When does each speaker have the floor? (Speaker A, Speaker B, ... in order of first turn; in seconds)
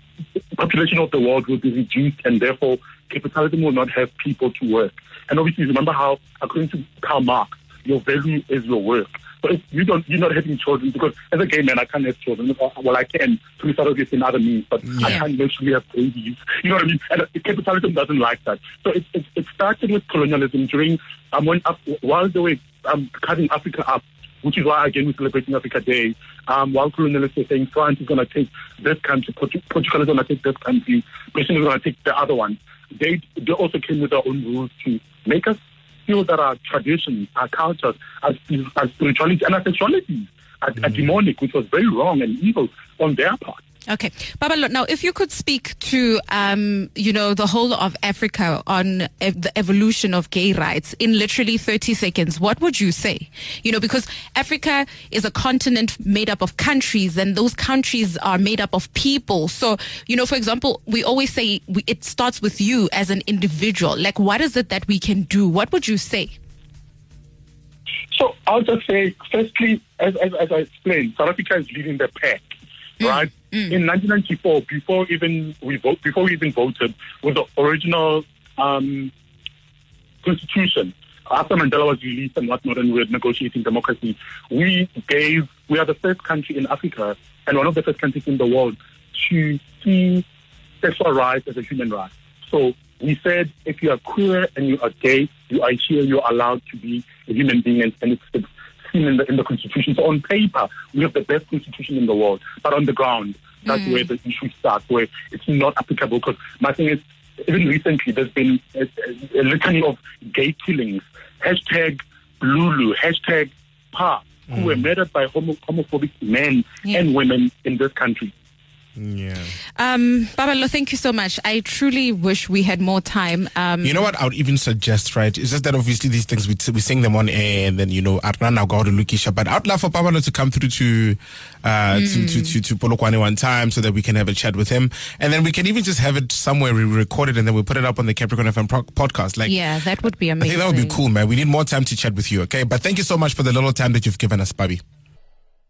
Speaker A: 0.5-43.6, 68.1-72.5, 73.0-79.1, 80.2-90.2, 90.8-118.3
Speaker B: 14.9-15.2, 114.5-114.9, 119.0-119.5, 123.8-139.6, 140.4-144.8
Speaker C: 15.0-15.2, 43.9-66.3, 73.0-73.8, 103.7-104.1, 119.8-124.1, 131.9-132.6, 139.4-141.0